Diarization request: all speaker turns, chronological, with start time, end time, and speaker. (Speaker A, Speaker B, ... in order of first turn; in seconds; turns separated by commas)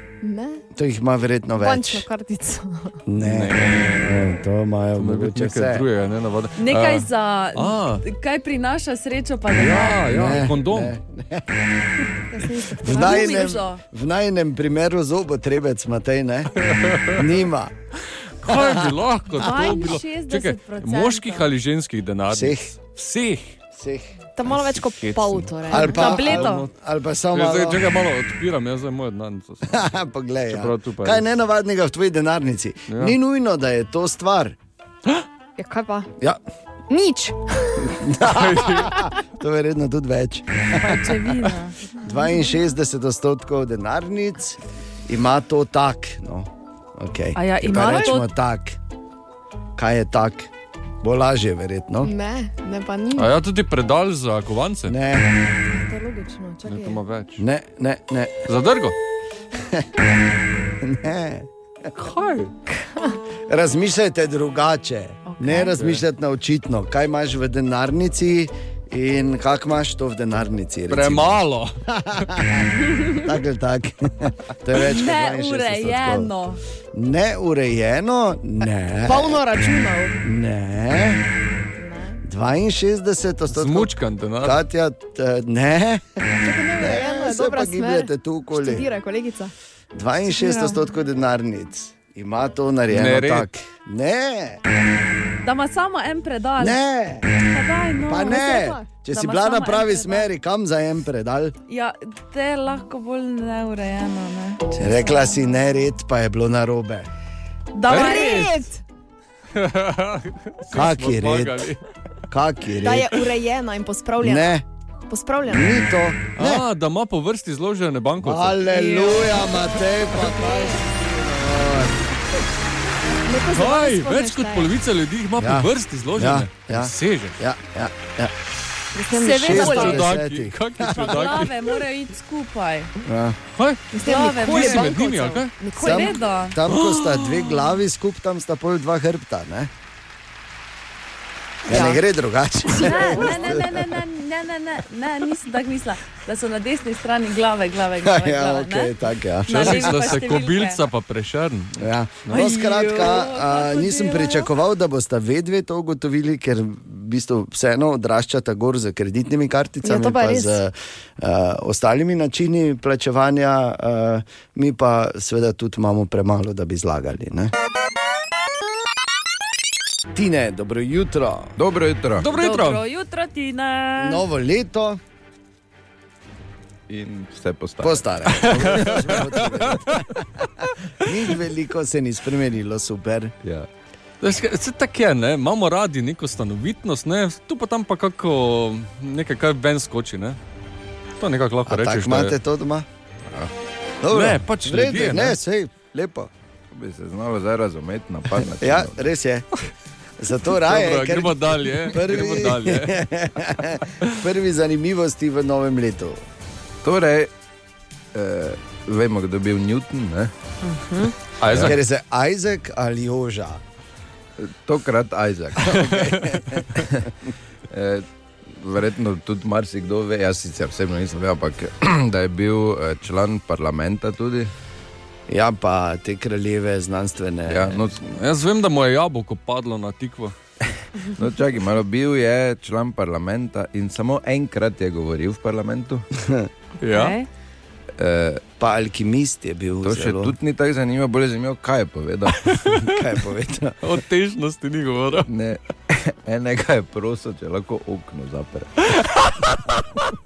Speaker A: 0.2-0.6, Speaker B: 0.7-2.1, Speaker A: 1.6-3.0, Speaker B: 3.0-5.8, Speaker C: 3.2-4.4, Speaker C: 5.0-8.0, Speaker D: 6.6-10.4, Speaker C: 9.5-10.9, Speaker B: 10.1-11.6, Speaker A: 12.3-13.5, Speaker B: 12.8-16.5, Speaker D: 12.9-13.8, Speaker C: 16.6-17.2, Speaker B: 17.1-17.7, Speaker C: 18.4-23.6, Speaker B: 18.4-18.8, Speaker D: 19.3-21.5, Speaker B: 22.3-22.7, Speaker B: 23.7-24.1, Speaker A: 24.4-26.3, Speaker C: 24.5-26.7, Speaker B: 25.7-27.9, Speaker D: 25.8-26.7, Speaker C: 27.3-29.8, Speaker B: 29.6-34.6, Speaker C: 30.5-31.2, Speaker C: 32.9-33.1, Speaker A: 35.6-36.1, Speaker A: 36.9-38.0, Speaker B: 37.8-48.8, Speaker C: 38.2-39.1, Speaker D: 40.7-41.7, Speaker D: 47.3-48.3, Speaker A: 47.7-48.2, Speaker B: 49.8-50.5, Speaker B: 51.0-52.1, Speaker A: 52.0-53.4, Speaker C: 53.1-54.9, Speaker B: 54.9-55.3, Speaker A: 55.7-57.0, Speaker C: 56.6-57.4, Speaker B: 57.4-58.5, Speaker C: 58.5-58.9, Speaker B: 60.8-61.9, Speaker D: 62.1-62.4, Speaker A: 62.6-63.2, Speaker B: 63.5-76.3, Speaker D: 65.2-65.8, Speaker C: 65.5-66.0, Speaker C: 70.9-71.8, Speaker D: 74.7-76.6, Speaker B: 76.9-79.4, Speaker A: 79.0-80.2, Speaker B: 80.2-81.2, Speaker A: 81.7-82.2, Speaker B: 82.2-86.2, Speaker C: 83.5-84.6, Speaker A: 86.4-89.5, Speaker B: 86.8-88.9, Speaker B: 89.9-94.6, Speaker D: 90.3-90.8, Speaker C: 92.9-93.5, Speaker D: 95.4-96.8, Speaker B: 96.6-97.3, Speaker D: 97.4-100.3, Speaker B: 98.0-101.5, Speaker A: 98.2-98.9, Speaker D: 101.7-105.4, Speaker B: 104.8-107.1, Speaker D: 107.7-108.7, Speaker A: 107.9-108.8, Speaker C: 107.9-108.5, Speaker C: 109.5-111.8, Speaker B: 110.7-111.7, Speaker B: 112.3-113.2, Speaker A: 112.7-114.5, Speaker B: 114.2-114.6, Speaker A: 115.1-115.8, Speaker B: 115.5-116.6, Speaker C: 116.3-118.6, Speaker B: 118.2-122.0, Speaker A: 118.7-120.8, Speaker A: 123.2-124.7, Speaker C: 123.5-127.4, Speaker B: 125.4-128.3, Speaker A: 128.9-130.1, Speaker D: 129.1-130.1, Speaker B: 129.3-131.5, Speaker C: 129.7-131.6, Speaker D: 130.9-132.9, Speaker B: 133.0-133.4, Speaker C: 133.5-133.8, Speaker A: 133.9-136.2, Speaker D: 134.0-136.6, Speaker C: 134.3-135.5, Speaker B: 135.8-139.7, Speaker C: 136.6-137.7, Speaker B: 141.7-144.0, Speaker A: 141.7-142.0, Speaker A: 142.7-143.6, Speaker D: 142.8-148.9, Speaker B: 148.0-150.3, Speaker D: 149.4-150.8, Speaker C: 149.5-152.4, Speaker B: 151.8-167.5, Speaker D: 152.3-154.5, Speaker A: 159.8-160.6, Speaker B: 170.1-171.5, Speaker E: 171.6-172.2, Speaker D: 172.2-174.2, Speaker C: 172.2-172.8, Speaker B: 174.0-175.0, Speaker E: 176.9-178.9, Speaker B: 177.8-183.3, Speaker C: 178.3-180.0, Speaker C: 184.2-190.4, Speaker C: 191.2-192.3, Speaker B: 191.7-192.9, Speaker B: 194.0-196.3, Speaker C: 194.1-195.3, Speaker E: 196.7-199.0, Speaker B: 198.4-199.5, Speaker B: 200.2-206.2, Speaker C: 200.5-203.0, Speaker E: 206.8-207.3, Speaker E: 208.1-210.3, Speaker A: 210.7-211.1, Speaker C: 211.4-211.8, Speaker B: 211.5-213.6, Speaker E: 211.5-211.7, Speaker E: 214.4-215.9, Speaker C: 215.6-216.3, Speaker B: 215.6-217.1, Speaker E: 217.7-218.1, Speaker E: 218.6-224.5, Speaker B: 225.3-227.8, Speaker E: 227.5-228.1, Speaker C: 228.0-230.3, Speaker E: 231.2-236.0, Speaker C: 236.8-237.2, Speaker D: 236.9-237.3, Speaker E: 238.0-238.4, Speaker B: 238.6-240.3, Speaker E: 239.8-242.5, Speaker C: 242.4-243.0, Speaker B: 242.7-243.9, Speaker C: 243.8-245.3, Speaker E: 245.3-248.8, Speaker C: 248.9-249.8